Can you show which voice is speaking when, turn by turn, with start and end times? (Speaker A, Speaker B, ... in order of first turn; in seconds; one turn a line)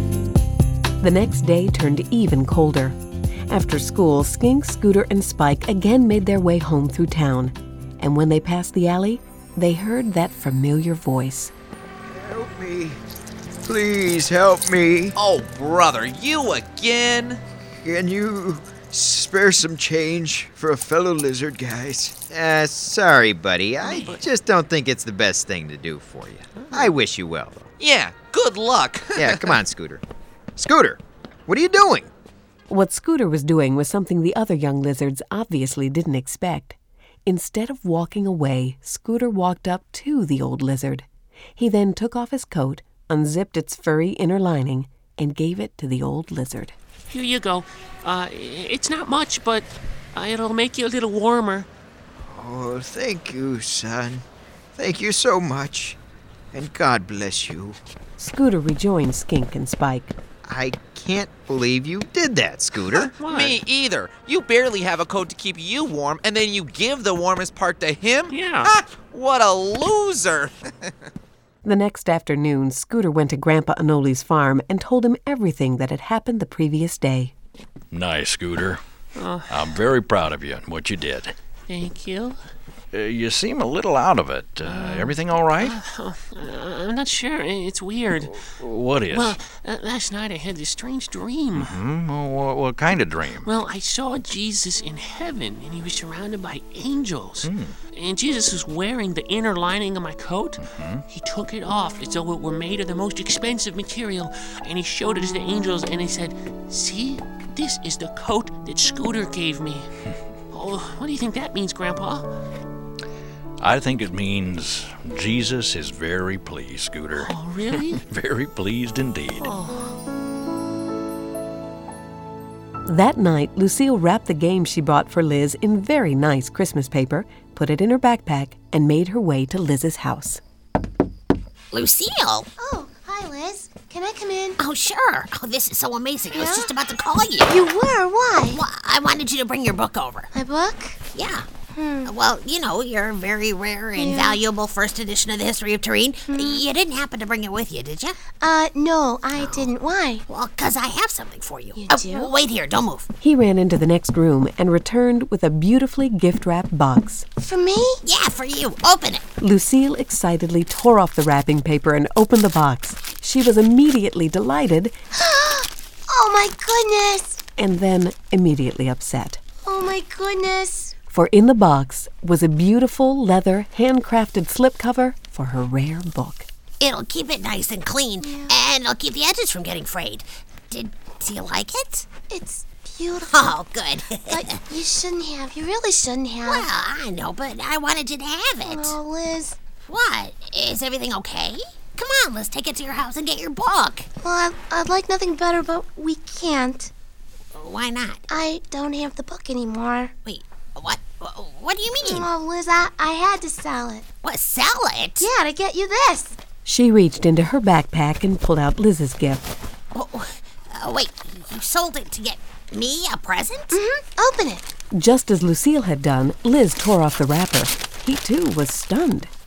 Speaker A: 1.0-3.0
Speaker A: 3.5-11.5
Speaker B: 12.1-13.0
Speaker B: 13.6-15.1
Speaker C: 15.2-17.4
Speaker B: 17.8-27.7
Speaker D: 23.8-24.2
Speaker D: 26.5-26.9
Speaker C: 27.8-29.6
Speaker B: 29.1-30.0
Speaker B: 30.6-32.1
Speaker A: 32.7-46.7
Speaker D: 47.1-51.7
Speaker B: 52.2-54.2
Speaker B: 54.8-56.0
Speaker B: 56.5-57.8
Speaker A: 58.2-60.1
Speaker B: 60.4-63.1
Speaker D: 63.1-63.6
Speaker C: 63.2-70.5
Speaker D: 68.3-68.7
Speaker A: 71.6-77.3
Speaker E: 77.9-78.8
Speaker D: 79.2-79.6
Speaker E: 79.5-81.3
Speaker D: 81.7-82.4
Speaker E: 82.9-85.7
Speaker D: 84.6-88.3
Speaker E: 88.3-89.4
Speaker D: 89.1-91.7
Speaker E: 91.5-93.5
Speaker D: 93.4-109.9
Speaker E: 97.4-97.8
Speaker E: 100.6-101.0
Speaker D: 110.5-112.3
Speaker E: 113.6-117.3
Speaker D: 117.1-118.0
Speaker E: 118.1-119.5
Speaker D: 119.4-119.8
Speaker A: 122.8-130.4
Speaker F: 131.7-132.5
Speaker G: 132.6-134.6
Speaker F: 134.6-137.6
Speaker G: 136.3-136.7
Speaker G: 137.4-138.6
Speaker F: 138.5-140.3
Speaker G: 140.3-141.0
Speaker F: 141.1-141.4
Speaker G: 141.7-142.1
Speaker F: 142.0-148.2
Speaker G: 143.9-144.4
Speaker G: 146.3-146.6
Speaker G: 148.4-150.2
Speaker F: 149.3-149.7
Speaker F: 150.3-153.1
Speaker G: 151.8-152.3
Speaker A: 153.2-157.2
Speaker G: 157.4-158.0
Speaker F: 158.0-159.3
Speaker A: 159.4-164.9
Speaker G: 165.1-167.4
Speaker A: 167.6-169.4
Speaker G: 169.6-170.9
Speaker A: 171.1-176.5
Speaker F: 176.8-182.1
Speaker G: 178.2-178.5
Speaker G: 182.3-183.6
Speaker F: 183.3-184.6
Speaker G: 184.3-186.7
Speaker F: 186.4-188.9
Speaker G: 188.6-189.6
Speaker F: 189.8-194.1
Speaker G: 194.2-196.9
Speaker F: 197.5-198.2
Speaker G: 198.3-200.1
Speaker F: 200.2-202.3
Speaker G: 202.0-204.0
Speaker F: 204.2-205.3
Speaker G: 205.2-206.3
Speaker A: 206.6-209.5
Speaker F: 209.9-213.8
Speaker G: 213.7-214.7
Speaker A: 214.9-219.3